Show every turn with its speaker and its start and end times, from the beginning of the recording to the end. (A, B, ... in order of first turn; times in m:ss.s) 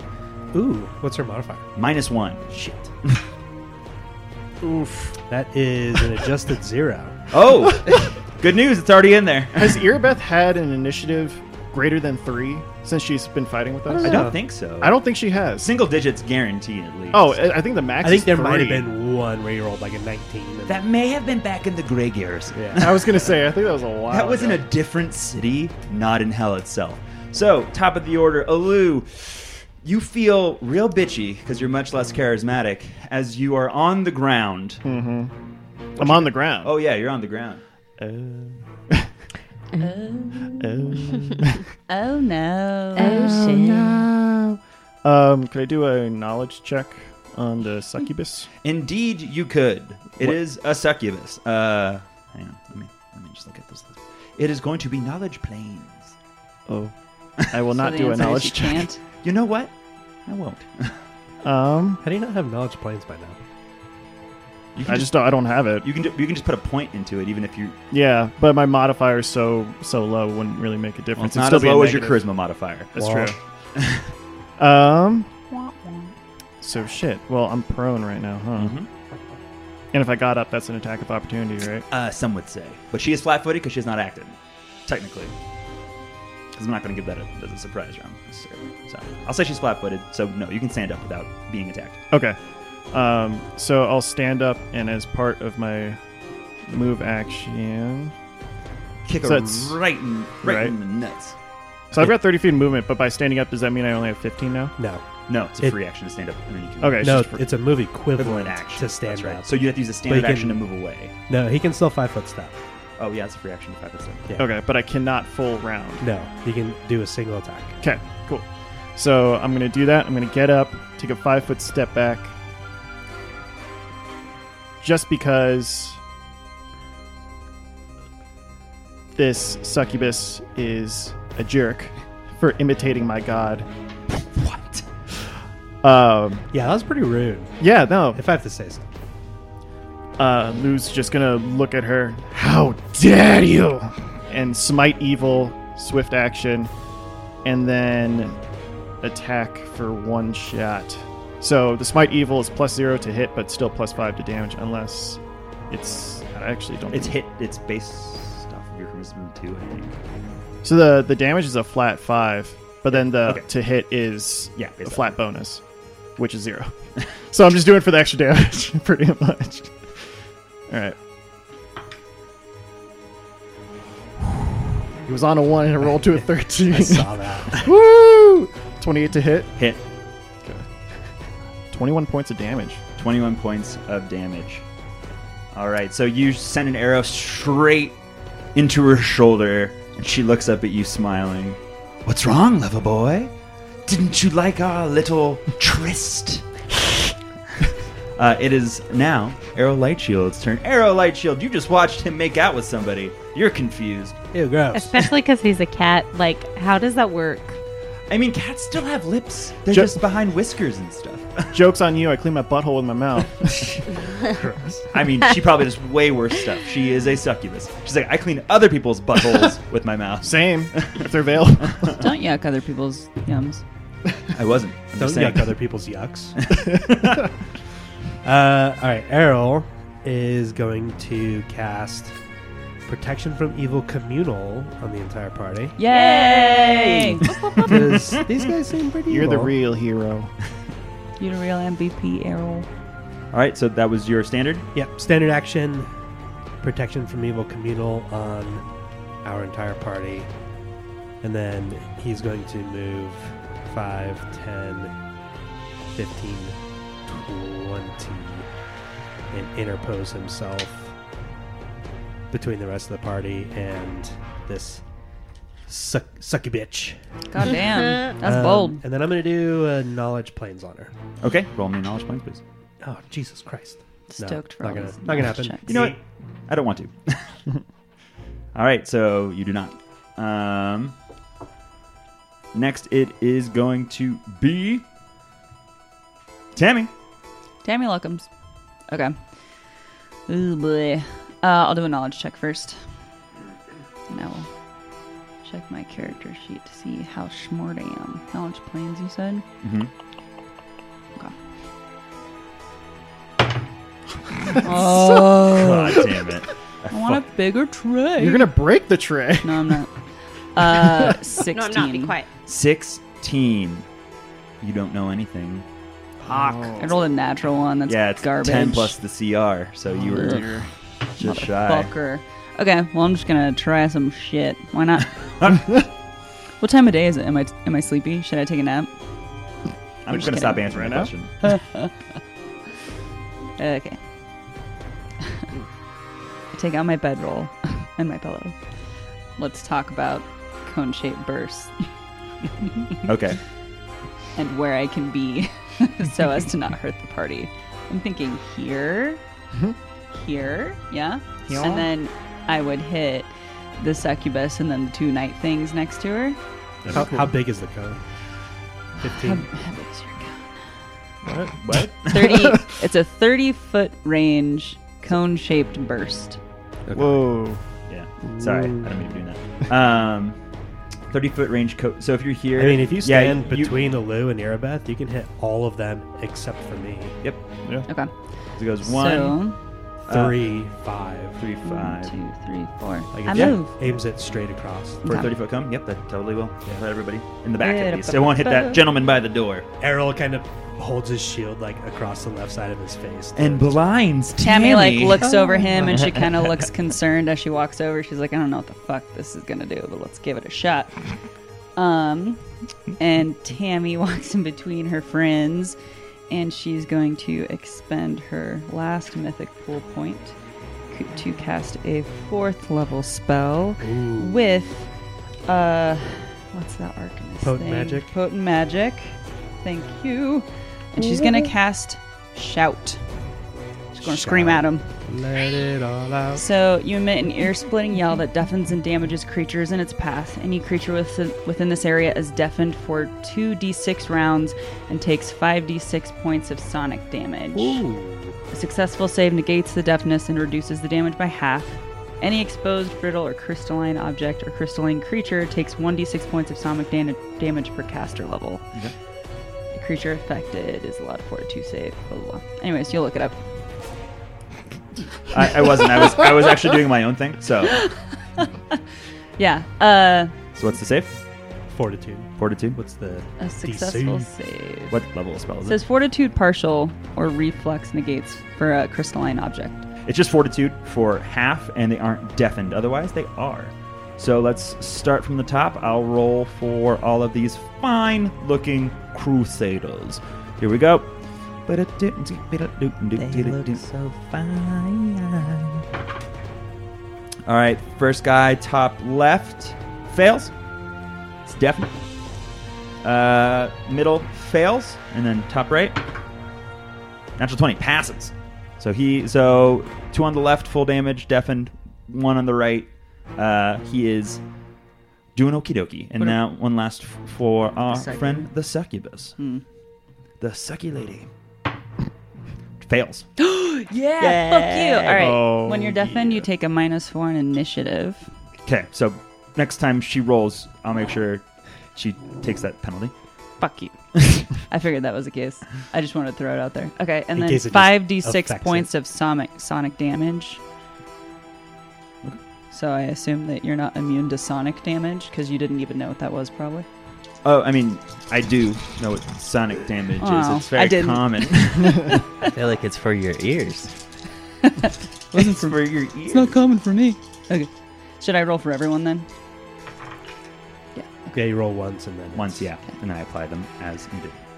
0:00.5-0:01.7 A
0:01.8-0:03.2 B
0:04.6-0:05.2 C
0:05.3-0:07.2 A
0:07.3-0:09.9 B
0:09.6-0:15.7 C
0:13.9-0:14.4 A
0:14.0-0:15.0 B
0:15.6-0:17.4 B
0:17.1-0:18.9 C
0:18.0-0:20.8 A
0:20.7-0:23.4 B
0:22.7-0:24.6 C
0:24.1-0:34.8 B
0:34.8-0:35.3 C
0:36.0-0:36.7 C
0:36.0-0:37.6 B
0:38.0-0:39.1 C
0:39.8-0:40.9 D
0:40.5-0:41.7 C
0:41.9-0:43.5 D
0:43.0-0:44.0 E
0:43.1-0:48.5 C
0:48.6-0:56.2 B
0:56.7-0:58.9 C
0:57.8-0:59.0 D
0:59.2-0:59.7 B
1:00.3-1:01.0 B
1:01.4-1:02.0 C
1:02.0-1:03.4 A
1:04.8-1:05.2 B
1:04.9-1:05.9 C
1:05.8-1:07.8 B
1:07.9-1:12.2 C
1:11.2-1:12.9 B
1:12.9-1:13.4 C
1:13.0-1:13.4 A
1:13.8-1:14.1 B
1:14.6-1:15.3 C
1:15.5-1:16.1 D
1:16.6-1:18.8 C
1:18.6-1:18.9 B
1:19.9-1:21.9 C
1:21.9-1:25.3 B
1:26.5-1:32.0 B
1:32.1-1:36.0 C
1:36.7-1:38.1 C
1:39.0-1:41.4 B
1:39.2-1:39.8 C
1:40.4-1:40.8 C
1:41.9-1:44.8 C
1:44.8-1:45.0 A
1:45.3-1:47.4 B
1:46.8-1:47.4 C
1:47.0-1:50.7 A
1:48.2-1:51.1 B
1:51.3-1:52.6 A
1:53.0-1:54.3 B
1:54.4-1:56.0 C
1:56.0-1:57.8 A
1:57.8-2:02.3 C
2:04.8-2:06.0 C
2:09.2-2:13.7 C
2:14.1-2:14.9 B
2:15.8-2:16.4 C
2:16.5-2:18.8 A
2:17.6-2:18.2 C
2:20.2-2:26.7 C
2:27.4-2:28.4 C
2:29.0-2:37.2 C
2:36.9-2:40.0 B
2:40.6-2:51.0 C
2:42.9-2:43.5 B
2:44.6-2:45.2 B
2:55.0-2:59.6 C
2:56.7-2:57.6 A
2:59.6-2:59.8 B
3:00.4-3:01.1 C
3:01.7-3:02.8 C
3:03.0-3:04.6 B
3:05.5-3:08.0 B
3:08.6-3:13.3 B
3:13.9-3:17.2 B
3:18.2-3:24.2 B
3:24.3-3:25.0 A
3:24.7-3:27.6 E
3:28.1-3:31.6 B
3:29.7-3:30.0 C
3:31.5-3:33.8 C
3:34.3-3:34.9 A
3:34.9-3:41.1 B
3:40.2-3:42.0 C
3:41.6-3:42.1 B
3:42.0-3:43.6 D
3:44.3-3:45.6 B
3:45.0-3:46.4 A
3:46.5-3:47.2 B
3:48.2-3:52.2 A
3:52.9-3:55.8 A
3:55.8-3:57.3 D
3:55.9-3:58.2 B
3:57.2-3:57.8 C
3:57.6-3:59.5 A
3:59.1-4:00.3 C
4:01.2-4:02.7 D
4:03.3-4:04.7 B
4:04.7-4:05.9 A
4:06.6-4:08.7 A
4:09.2-4:10.3 A
4:11.2-4:14.9 A
4:15.9-4:18.5 A
4:19.3-4:20.9 A
4:22.3-4:24.8 A
4:25.7-4:27.0 A
4:27.3-4:28.8 D
4:28.2-4:30.9 A
4:31.2-4:32.4 B
4:32.8-4:36.0 A
4:34.1-4:35.6 D
4:35.7-4:37.4 B
4:38.6-4:41.0 B
4:42.5-4:44.9 B
4:46.6-4:46.9 B
4:47.6-4:48.3 D
4:48.9-4:49.7 D
4:50.3-4:53.1 D
4:54.1-4:59.4 D
4:59.6-4:59.9 B
5:04.6-5:06.1 D
5:04.6-5:06.0 C
5:05.5-5:07.2 B
5:06.9-5:08.5 D
5:08.2-5:09.8 C
5:09.4-5:10.0 D
5:10.5-5:12.2 D
5:11.5-5:12.3 E
5:12.5-5:13.9 B
5:14.6-5:15.7 B
5:16.2-5:17.0 C
5:16.8-5:19.0 D
5:17.9-5:20.5 B
5:19.9-5:20.7 C
5:20.1-5:20.4 D
5:21.2-5:25.6 D
5:21.2-5:21.9 B
5:25.4-5:25.7 B
5:26.6-5:28.9 D
5:30.0-5:31.4 B
5:30.1-5:31.1 C
5:30.1-5:30.7 D
5:31.4-5:31.9 D
5:33.6-5:34.6 D
5:36.5-5:41.9 D
5:43.0-5:43.4 B
5:44.4-5:49.2 D
5:50.1-5:56.4 D
5:51.5-5:51.9 C
5:56.8-5:57.4 C
5:56.9-5:58.0 A
5:59.0-5:59.5 A
5:59.2-6:00.8 D
6:01.2-6:02.7 C
6:01.6-6:02.3 B
6:02.1-6:06.4 D
6:06.9-6:07.4 A
6:06.9-6:07.6 C
6:07.9-6:10.4 B
6:08.3-6:08.9 A
6:11.1-6:13.8 B
6:12.6-6:17.2 A
6:17.9-6:19.6 D
6:18.6-6:19.4 B
6:20.1-6:20.4 B
6:20.1-6:21.4 A
6:21.4-6:22.2 B
6:21.6-6:23.8 D
6:23.1-6:25.0 A
6:23.3-6:23.6 B
6:25.0-6:25.3 D
6:25.0-6:29.7 B
6:27.6-6:28.8 D
6:29.8-6:33.8 A
6:33.4-6:35.3 B
6:34.4-6:41.2 D
6:41.8-6:45.8 D
6:46.3-6:50.4 D
6:50.9-6:54.9 D
6:53.8-6:54.4 A
6:55.4-7:03.1 D
6:57.4-6:58.1 A
7:01.0-7:01.5 A
7:03.9-7:06.4 A
7:04.0-7:04.9 D
7:06.3-7:17.9 D
7:17.5-7:18.4 A
7:18.5-7:28.7 D
7:29.7-7:33.4 D
7:35.3-7:37.8 B
7:37.7-7:38.8 D
7:39.4-7:40.4 D
7:40.6-7:41.2 B
7:41.7-7:44.3 A
7:42.4-7:42.8 B
7:43.4-7:45.0 D
7:44.9-7:45.8 B
7:45.7-7:49.9 D
7:50.0-8:01.1 B
8:01.7-8:03.8 B
8:03.2-8:05.8 F
8:07.5-8:10.5 B
8:11.4-8:11.9 B
8:13.0-8:16.0 B
8:17.4-8:24.4 B
8:25.4-8:29.4 B
8:27.9-8:28.5 D
8:29.4-8:29.6 D
8:30.4-8:31.3 B
8:32.8-8:33.3 B
8:33.4-8:38.3 D
8:34.2-8:35.4 F
8:35.2-8:36.4 C
8:38.7-8:43.1 B
8:43.6-8:50.6 D
8:47.3-8:48.9 A
8:52.7-8:56.9 D
8:57.4-9:02.2 B
9:00.2-9:02.2 D
9:02.5-9:04.0 F
9:04.6-9:09.3 D
9:05.3-9:06.6 B
9:11.0-9:11.4 D
9:11.3-9:12.7 A
9:12.3-9:14.4 B